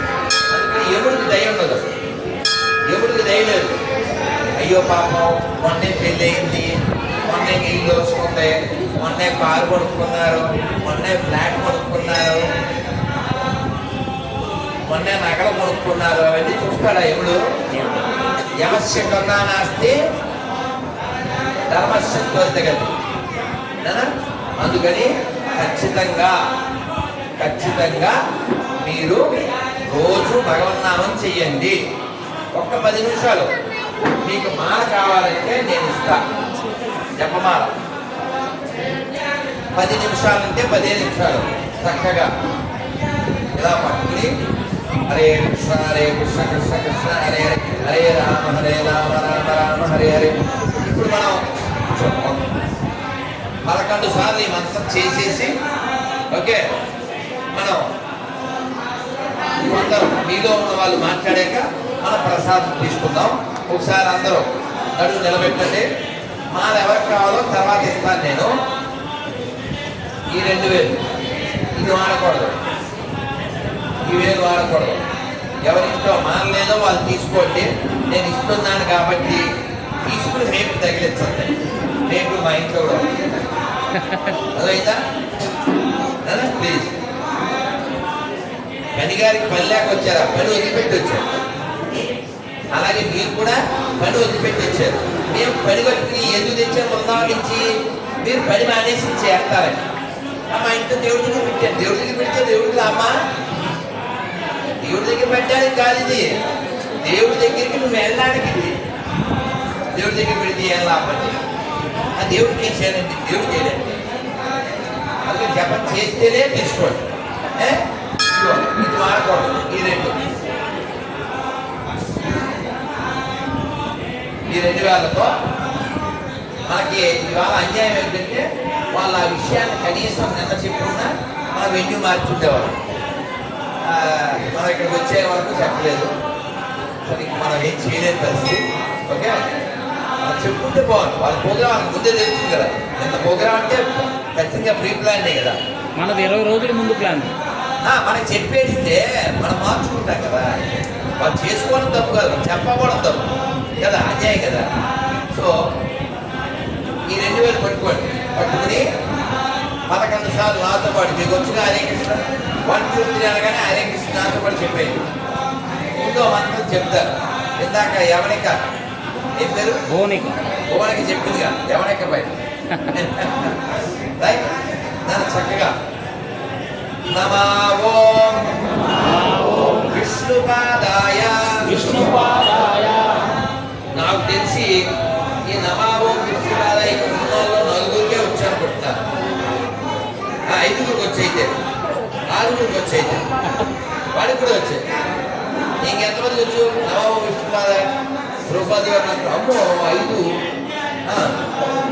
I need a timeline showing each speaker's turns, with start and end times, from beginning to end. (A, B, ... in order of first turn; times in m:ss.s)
0:00.5-0:01.9 A
0:02.9-0:03.7 A
0:04.6-0:12.5 A
0:14.9-0:17.4 A
0:18.6-0:20.0 A
0:21.7-0:22.9 A
0:23.8-0:26.4 A
0:27.4-0:28.2 A
0:28.8-0:31.8 A
0:32.5-0:33.5 A
0:34.2-0:36.2 A
0:37.2-0:37.7 A
0:39.8-0:42.3 A
0:43.6-0:44.3 A
0:45.1-0:52.5 A
0:53.6-0:55.6 A
0:56.3-0:56.6 A
0:57.5-0:57.8 A
0:59.6-1:05.9 A
1:06.5-1:08.5 A
1:10.3-1:11.0 A
1:11.7-1:12.6 A
1:14.0-1:15.0 A
1:15.6-1:19.5 A
1:20.0-1:21.5 A
1:22.1-1:23.1 A
1:24.5-1:25.0 A
1:26.2-1:26.9 A
1:29.0-1:31.3 A
1:32.8-1:37.7 A
1:38.2-1:39.8 A
1:40.5-1:43.2 A
1:44.8-1:46.4 A
1:47.0-1:48.8 A
1:49.9-1:51.4 A
1:52.2-1:54.0 A
1:55.2-2:00.2 A
2:04.5-2:05.3 A
2:06.7-2:12.8 A
2:13.8-2:16.1 A
2:17.0-2:19.4 A
2:20.2-2:25.6 A
2:26.0-2:27.3 B
2:27.8-2:30.6 A
2:31.2-2:33.3 A
2:33.8-2:34.7 A
2:37.1-2:38.9 A
2:39.9-2:45.0 A
2:46.0-2:48.6 A
2:49.4-2:49.8 A
2:49.9-2:50.4 B
2:50.7-2:52.3 A
2:52.8-2:54.5 A
2:55.0-2:55.8 A
2:57.1-2:58.5 A
2:59.1-2:59.8 B
2:59.5-3:02.1 A
3:01.7-3:03.3 B
3:04.0-3:04.8 A
3:05.5-3:09.0 A
3:10.5-3:11.5 A
3:12.3-3:13.3 A
3:14.1-3:14.8 A
3:15.8-3:17.8 A
3:18.5-3:20.3 A
3:21.1-3:21.4 A